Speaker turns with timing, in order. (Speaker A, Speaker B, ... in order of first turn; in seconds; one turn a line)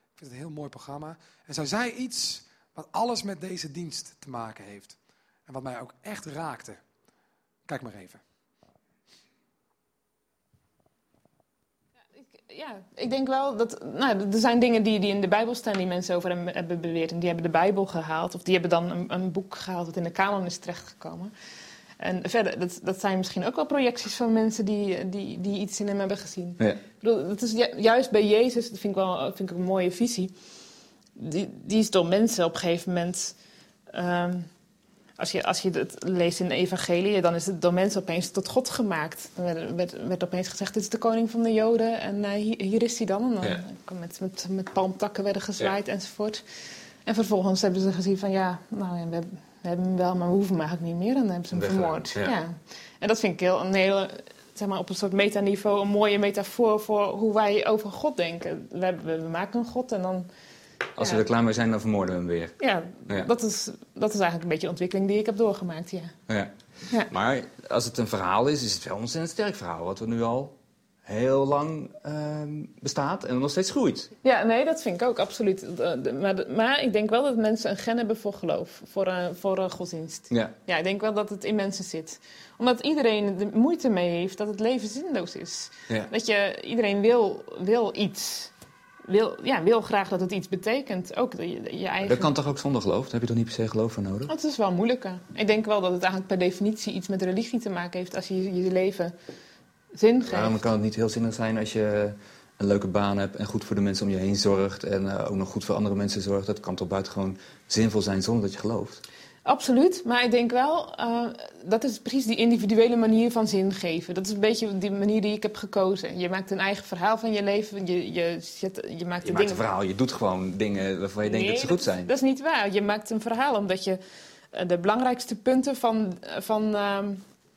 Speaker A: 0.2-6.8
Speaker A: 7.7-8.2
Speaker B: 12.2-21.3
Speaker B: 22.0-30.3
Speaker B: 31.2-33.4
Speaker B: 33.9-34.5
Speaker B: 35.2-46.4
Speaker B: 47.0-60.3
Speaker C: 51.5-52.4
Speaker B: 61.0-61.2
Speaker C: 61.0-62.6
Speaker B: 62.6-66.2
Speaker C: 66.3-66.5
Speaker C: 67.1-74.1
Speaker B: 74.2-88.5
Speaker B: 89.0-92.3
Speaker C: 92.0-94.3
Speaker B: 94.3-99.1
Speaker B: 99.9-100.6
Speaker C: 100.2-109.0
Speaker B: 109.5-119.6
Speaker C: 119.2-122.1
Speaker B: 121.2-124.0
Speaker B: 124.5-127.2